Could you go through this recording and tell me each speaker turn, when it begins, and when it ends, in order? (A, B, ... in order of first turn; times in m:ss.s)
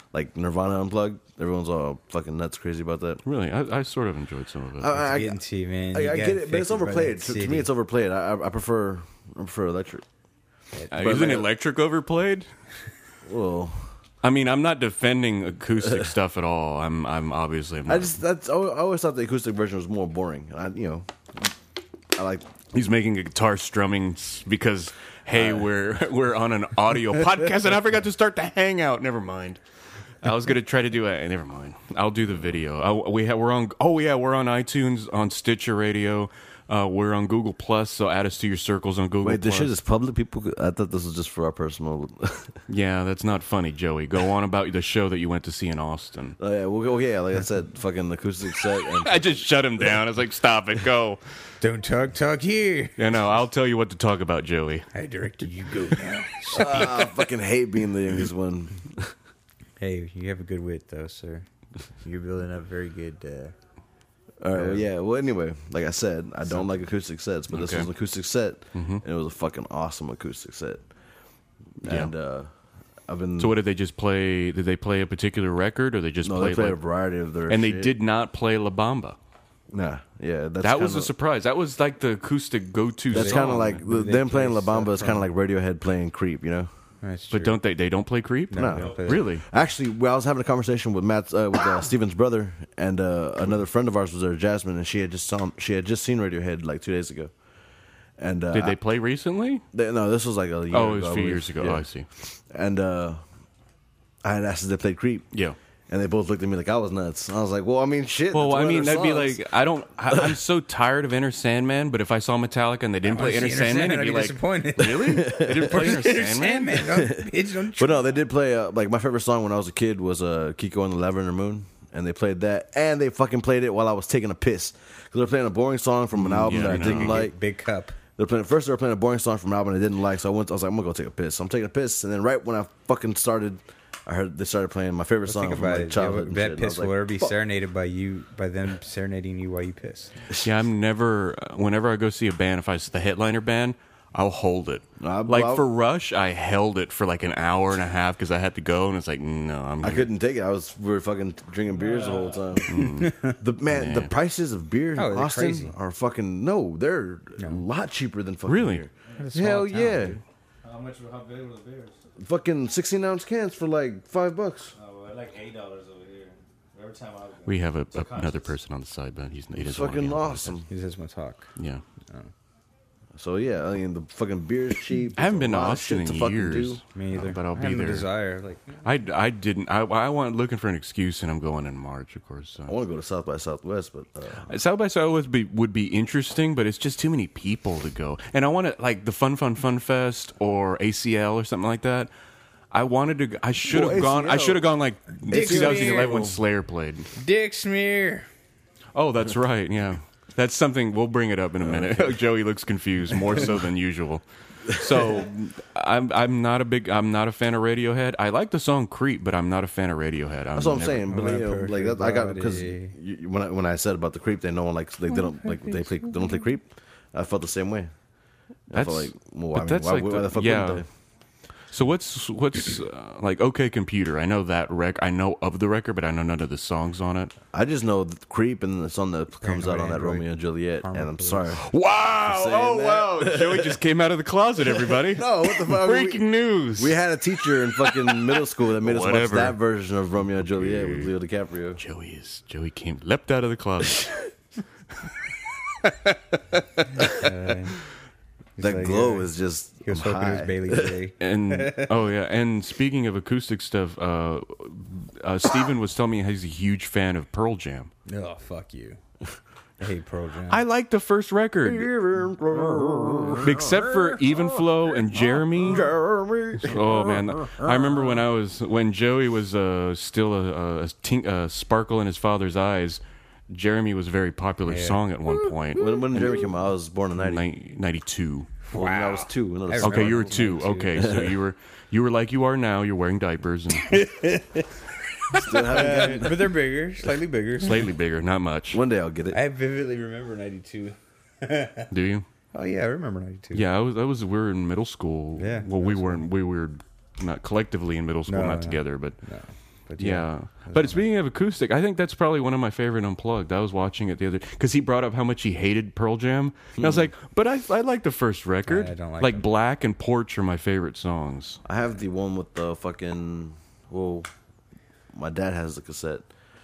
0:00.1-0:03.2 A
0:03.2-0:05.0 B
0:04.8-0:05.4 A
0:05.0-0:07.7 C
0:05.9-0:10.0 A
0:10.9-0:12.5 B
0:10.9-0:11.5 A
0:13.2-0:13.9 A
0:14.2-0:18.1 B
0:17.9-0:21.4 A
0:22.1-0:22.5 A
0:22.7-0:29.6 B
0:25.3-0:25.7 A
0:30.2-0:39.7 B
0:39.2-0:42.5 A
0:42.7-0:46.4 B
0:46.4-0:49.9 A
0:48.8-0:51.2 B
0:51.6-0:53.3 C
0:53.0-0:54.9 B
0:54.9-0:57.2 C
0:56.5-0:59.1 A
0:59.8-1:01.4 C
1:02.0-1:03.5 C
1:04.4-1:10.8 A
1:04.5-1:04.8 C
1:07.5-1:07.9 B
1:08.7-1:09.0 B
1:11.8-1:12.5 A
1:11.8-1:12.1 B
1:13.1-1:13.5 A
1:13.4-1:16.8 B
1:16.2-1:17.9 A
1:17.5-1:19.2 B
1:19.7-1:21.1 A
1:20.6-1:23.8 B
1:23.1-1:26.7 A
1:23.1-1:25.2 C
1:27.0-1:27.6 C
1:27.3-1:29.4 B
1:28.5-1:29.3 C
1:28.5-1:37.3 A
1:28.8-1:29.2 D
1:38.2-1:38.8 A
1:38.5-1:39.6 B
1:39.7-1:43.2 A
1:40.7-1:42.0 B
1:44.2-1:45.3 A
1:45.9-1:49.4 A
1:48.3-1:56.8 B
1:50.1-1:50.4 A
1:53.0-1:58.2 C
1:54.8-1:55.9 A
1:56.9-2:07.3 A
2:06.2-2:07.2 B
2:06.4-2:08.0 C
2:08.2-2:17.3 A
2:15.3-2:20.1 C
2:20.4-2:30.1 B
2:25.0-2:25.7 A
2:29.8-2:40.2 A
2:31.7-2:32.6 D
2:32.7-2:33.2 B
2:33.0-2:33.4 C
2:33.7-2:34.1 B
2:35.0-2:35.7 C
2:37.4-2:37.6 C
2:38.5-2:38.8 B
2:39.1-2:39.3 D
2:39.2-2:40.2 C
2:40.6-2:42.0 D
2:42.2-2:44.7 A
2:44.7-2:48.5 D
2:47.4-2:50.6 B
2:49.6-2:50.7 A
2:50.7-2:51.5 C
2:51.6-2:51.8 B
2:53.2-2:56.8 A
2:55.2-2:58.1 B
2:56.9-2:58.8 C
2:58.8-3:02.8 B
3:02.7-3:04.5 A
3:04.4-3:12.1 B
3:12.7-3:17.1 B
3:13.6-3:14.7 A
3:15.3-3:16.3 C
3:15.3-3:16.4 A
3:17.1-3:18.3 C
3:18.9-3:31.0 B
3:21.6-3:22.2 A
3:30.5-3:37.9 A
3:31.0-3:32.9 C
3:35.1-3:36.4 C
3:38.7-3:40.8 A
3:38.7-3:40.8 B
3:41.7-3:47.3 B
3:47.5-3:51.6 A
3:49.4-3:51.6 C
3:51.6-3:57.0 B
3:52.2-3:53.8 A
3:54.6-4:01.8 A
3:57.6-3:59.6 B
4:00.4-4:01.1 B
4:01.8-4:04.3 B
4:05.8-4:06.2 B
4:07.1-4:07.8 C
4:08.6-4:09.3 C
4:08.6-4:11.0 A
4:09.8-4:11.9 C
4:11.2-4:17.9 B
4:18.1-4:19.0 C
4:19.8-4:20.6 C
4:20.5-4:21.9 B
4:21.6-4:28.1 A
4:22.8-4:23.5 C
4:23.4-4:25.9 B
4:26.6-4:35.9 B
4:34.7-4:35.0 C
4:35.8-4:37.4 A
4:37.2-4:38.5 B
4:38.6-4:41.1 C
4:38.7-4:40.3 A
4:39.8-4:44.0 B
4:41.0-4:41.4 A
4:43.8-4:44.7 C
4:45.3-4:47.9 C
4:45.3-4:46.5 A
4:47.6-4:48.8 B
4:48.7-4:49.4 A
4:49.3-4:51.9 C
4:51.9-4:52.2 B
4:52.5-4:53.6 C
4:53.5-4:59.2 B
4:55.4-4:56.2 C
4:58.3-5:01.0 C
5:00.0-5:11.6 B
5:06.8-5:07.1 A
5:08.6-5:09.4 C
5:11.6-5:14.3 A
5:15.1-5:16.3 A